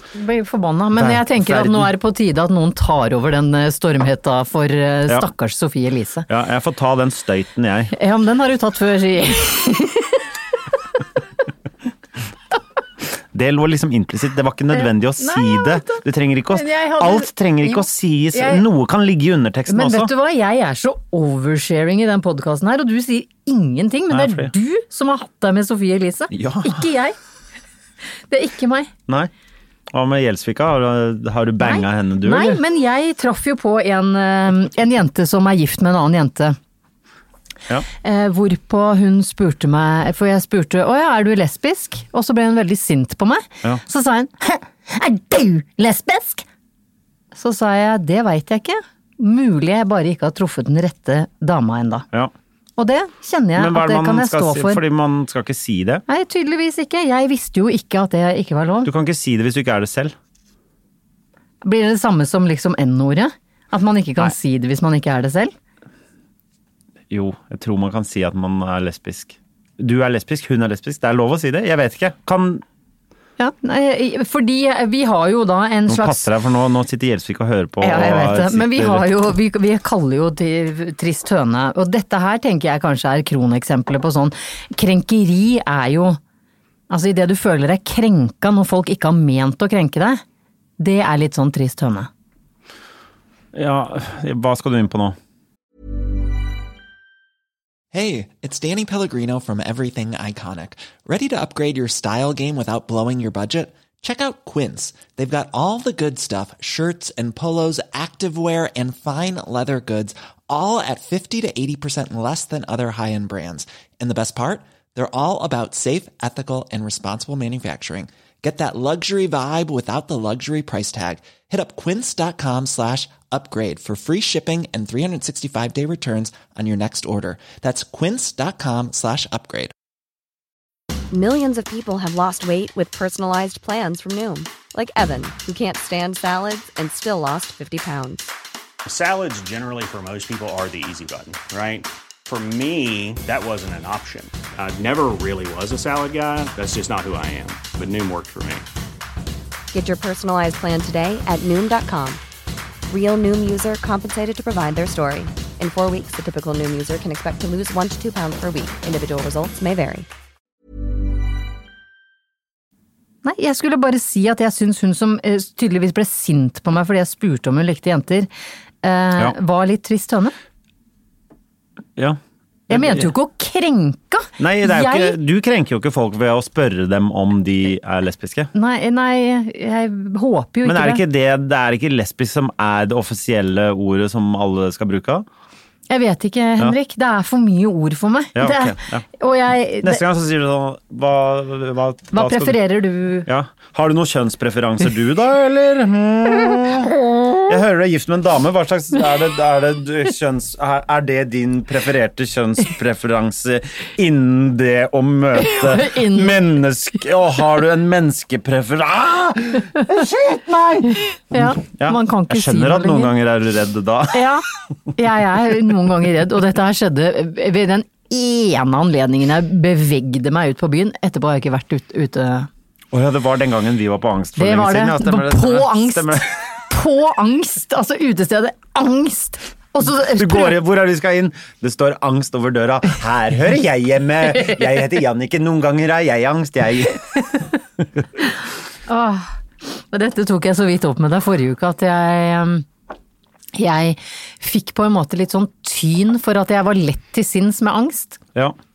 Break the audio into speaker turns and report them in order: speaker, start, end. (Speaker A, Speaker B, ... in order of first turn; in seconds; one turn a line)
Speaker A: 0.1-6.3
Speaker B: 1.0-1.9
Speaker B: 6.3-7.9
Speaker A: 7.9-10.2
Speaker B: 13.3-20.1
Speaker A: 14.7-18.6
Speaker A: 19.7-27.1
Speaker B: 24.1-24.5
Speaker B: 26.3-26.9
Speaker A: 28.3-28.9
Speaker B: 29.9-32.6
Speaker A: 31.6-36.6
Speaker A: 38.0-46.5
Speaker A: 47.3-52.1
Speaker A: 52.8-54.8
Speaker B: 53.5-56.0
Speaker A: 56.1-58.9
Speaker B: 58.8-60.1
Speaker A: 61.6-65.5
Speaker B: 67.1-72.6
Speaker A: 73.4-76.3
Speaker B: 75.9-79.1
Speaker A: 77.8-86.2
Speaker A: 86.9-90.2
Speaker A: 90.8-92.1
Speaker B: 93.5-95.2
Speaker C: 97.9-129.7
Speaker D: 131.1-138.3
Speaker E: 138.9-148.7
Speaker D: 149.7-152.2
Speaker D: 152.9-160.1
Speaker A: 163.2-168.3
Speaker A: 168.8-170.3
Speaker B: 172.0-173.1
Speaker A: 172.7-175.2
Speaker B: 174.4-178.5
Speaker A: 178.5-181.0
Speaker B: 180.6-185.3
Speaker A: 185.9-190.0
Speaker B: 188.3-189.1
Speaker B: 189.8-192.6
Speaker A: 192.1-193.3
Speaker B: 193.3-214.4
Speaker A: 196.6-197.5
Speaker A: 205.4-206.4
Speaker A: 210.9-213.1
Speaker A: 214.1-222.5
Speaker B: 222.9-226.3
Speaker A: 224.4-230.6
Speaker B: 229.8-237.1
Speaker A: 238.9-242.7
Speaker A: 243.5-248.2